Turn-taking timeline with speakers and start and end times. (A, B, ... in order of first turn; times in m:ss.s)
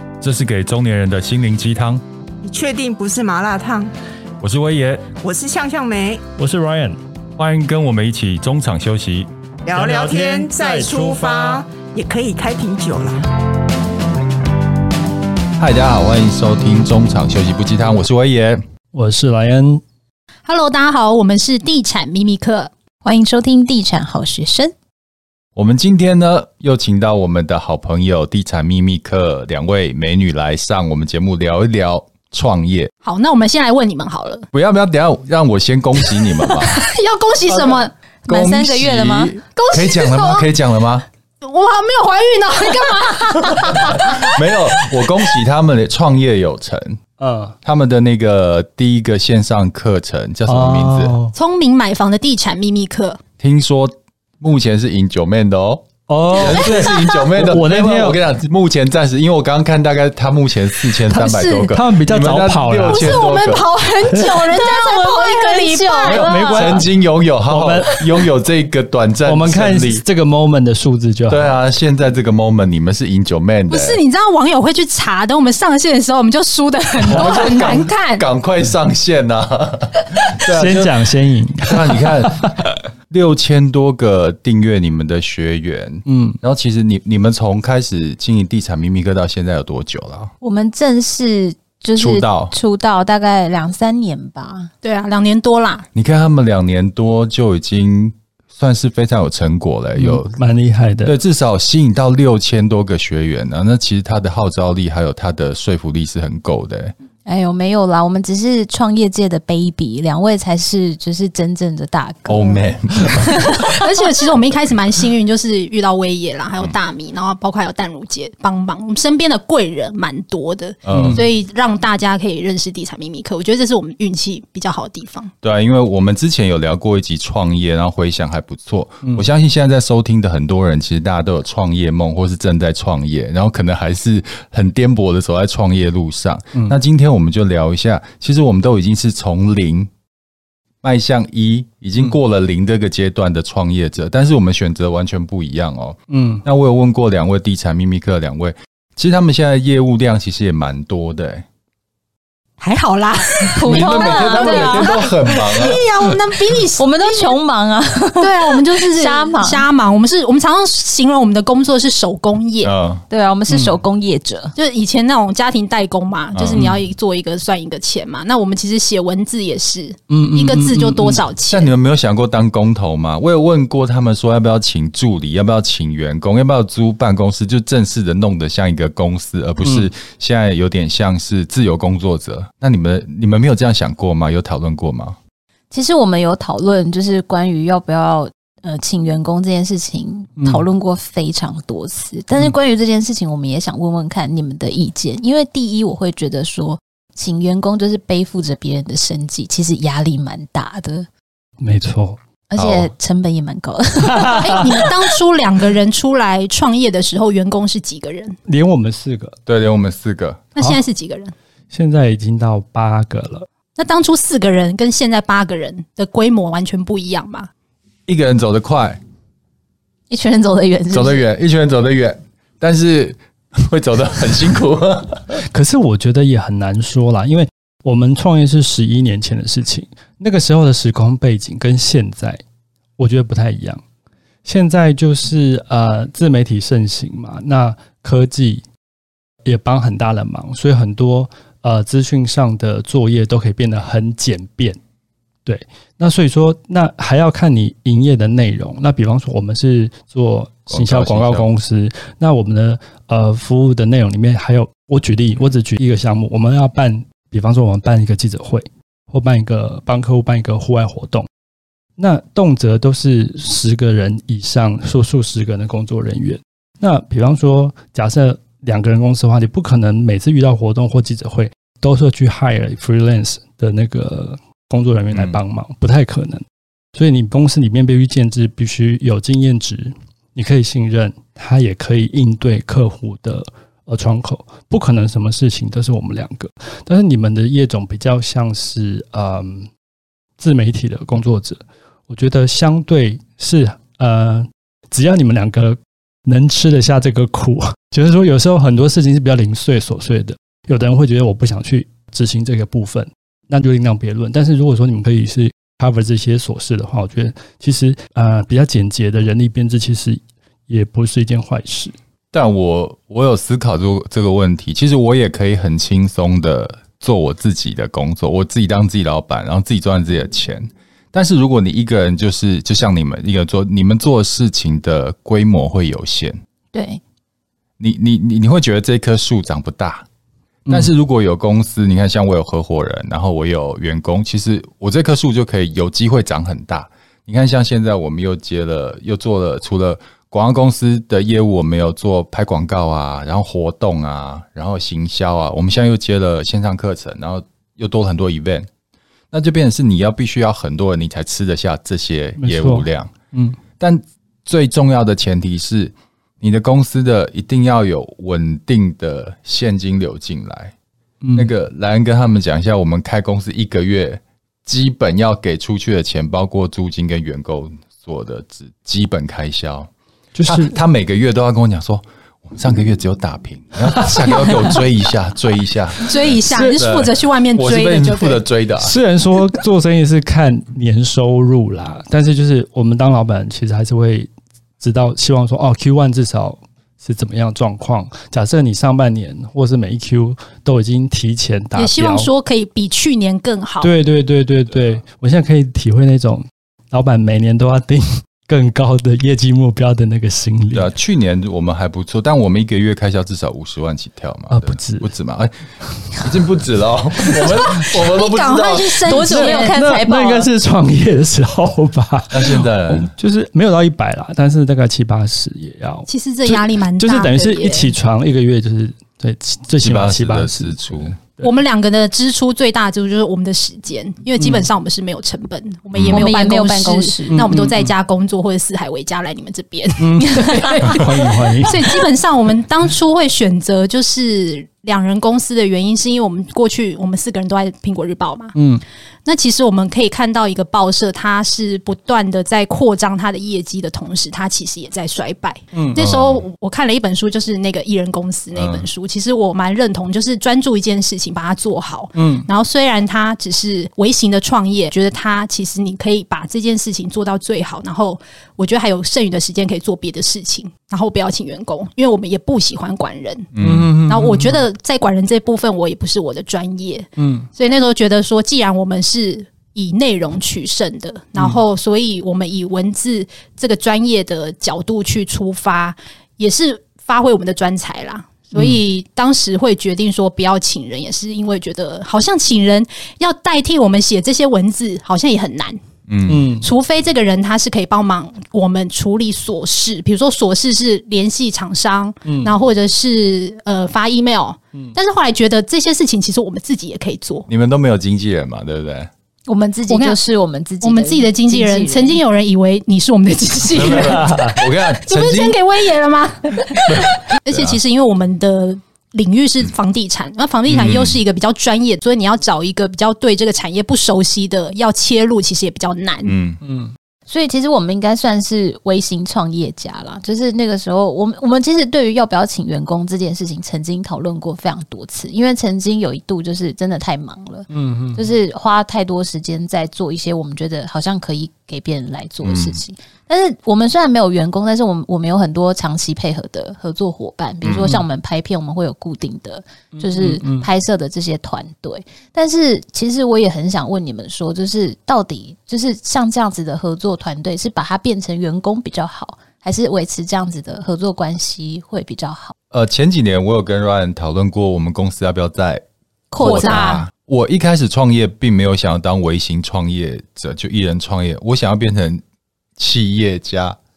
0:00.2-0:02.0 A
0:02.4-0:03.9 B
0:04.4-0:05.0 A
0:05.2-0:06.2 B
0:06.4-0:07.0 C
0:07.4-0:09.3 A
0:09.6-0:13.2 B
0:09.7-0:11.6 C
0:15.6-0:18.6 A
0:18.9-0:19.8 C
0:20.4-0:22.7 D
0:23.0-0:24.7 E
0:25.6-0:32.9 A
0:33.0-0:34.5 D
0:34.5-0:36.8 A
0:36.5-0:37.9 D
0:37.5-0:41.1 A
0:38.2-0:39.4 E
0:39.5-0:40.5 D
0:41.4-0:44.3 D
0:43.6-0:47.0 A
0:47.2-0:47.6 C
0:47.6-0:51.1 A
0:50.4-0:51.3 C
0:51.3-0:53.2 D
0:53.4-1:03.7 A
0:56.1-0:58.2 C
0:56.9-0:57.2 D
1:01.1-1:01.7 D
1:01.7-1:03.2 C
1:02.9-1:06.6 D
1:04.2-1:06.8 E
1:06.0-1:10.0 A
1:06.2-1:06.8 C
1:07.5-1:08.0 C
1:09.2-1:11.5 C
1:11.3-1:14.0 A
1:13.7-1:18.2 D
1:17.1-1:20.9 A
1:20.5-1:22.6 C
1:21.6-1:30.3 A
1:26.0-1:26.4 C
1:30.4-1:34.7 E
1:32.0-1:32.5 A
1:34.8-1:35.9 D
1:35.9-1:40.3 A
1:40.0-1:41.2 C
1:41.0-1:46.9 A
1:47.2-1:53.8 E
1:52.3-1:53.6 A
1:53.6-2:05.3 D
2:00.8-2:01.2 A
2:00.9-2:01.2 C
2:05.4-2:19.9 A
2:20.8-2:31.4 A
2:26.1-2:26.4 C
2:32.6-2:37.4 D
2:33.5-2:35.0 E
2:33.6-2:35.8 A
2:36.8-2:39.6 E
2:38.2-2:42.7 D
2:42.6-2:43.0 A
2:43.1-2:44.5 E
2:43.5-2:43.8 C
2:44.6-2:51.7 D
2:46.3-2:46.7 A
2:46.5-2:46.8 C
2:50.1-2:51.2 C
2:51.5-3:05.2 A
2:59.6-2:59.9 C
3:05.7-3:21.1 E
3:10.4-3:10.7 C
3:21.6-3:22.2 C
3:22.5-3:24.9 E
3:22.6-3:22.9 A
3:24.0-3:24.7 C
3:24.4-3:28.4 D
3:28.5-3:29.4 C
3:29.4-3:30.4 A
3:30.5-3:31.3 D
3:31.7-3:33.5 C
3:33.8-3:37.5 D
3:38.1-3:39.0 A
3:40.1-3:41.2 E
3:40.9-3:45.4 A
3:45.4-3:52.4 C
3:53.0-3:53.8 C
3:54.4-3:58.6 C
3:59.4-4:04.8 C
4:05.4-4:21.3 C
4:10.7-4:11.5 A
4:22.0-4:49.7 C
4:35.1-4:35.4 A
4:50.4-5:11.9 C
5:12.3-5:26.4 A
5:26.7-5:27.0 E
5:27.8-5:30.0 A
5:30.7-5:48.7 A
5:49.3-5:53.1 A
5:52.4-5:53.6 C
5:53.8-6:00.7 A
6:01.2-6:01.5 C
6:01.4-6:09.9 A
6:10.3-6:10.8 C
6:10.4-6:18.9 A
6:13.8-6:14.8 C
6:16.0-6:18.4 D
6:16.5-6:16.8 C
6:18.8-6:32.3 C
6:31.8-6:33.9 D
6:33.8-6:40.9 C
6:40.7-6:45.5 A
6:44.5-6:45.1 C
6:46.2-6:49.2 A
6:47.4-6:49.8 D
6:49.0-6:50.5 E
6:49.2-7:01.5 C
6:52.3-6:53.1 A
6:56.1-6:57.9 D
6:59.8-7:01.2 A
7:01.4-7:18.5 D
7:04.4-7:04.7 C
7:05.9-7:06.3 A
7:06.1-7:07.5 E
7:07.3-7:07.9 C
7:10.0-7:11.9 C
7:18.5-7:18.8 C
7:19.2-7:43.5 D
7:25.7-7:26.0 C
7:26.0-7:26.4 A
7:28.5-7:28.8 A
7:32.2-7:32.5 C
7:43.5-7:43.9 A
7:43.6-7:44.6 C
7:44.1-8:05.8 D
7:47.2-7:47.5 C
8:06.1-8:06.5 A
8:06.3-8:06.7 C
8:06.6-8:17.5 D
8:12.2-8:12.5 C
8:17.5-8:19.1 A
8:19.5-8:22.2 E
8:19.9-8:20.2 D
8:20.8-8:36.4 D
8:23.7-8:25.6 A
8:23.9-8:24.5 C
8:26.9-8:27.8 A
8:30.7-8:31.2 A
8:36.2-8:36.6 A
8:36.6-8:36.9 C
8:37.3-9:12.5 E
8:47.7-8:48.2 C
8:52.4-8:52.8 A
8:57.6-8:58.0 A
8:59.9-9:00.7 C
9:12.7-9:15.8 A
9:16.3-9:17.0 E
9:16.4-9:22.2 A
9:16.4-9:17.0 D
9:22.8-9:23.8 A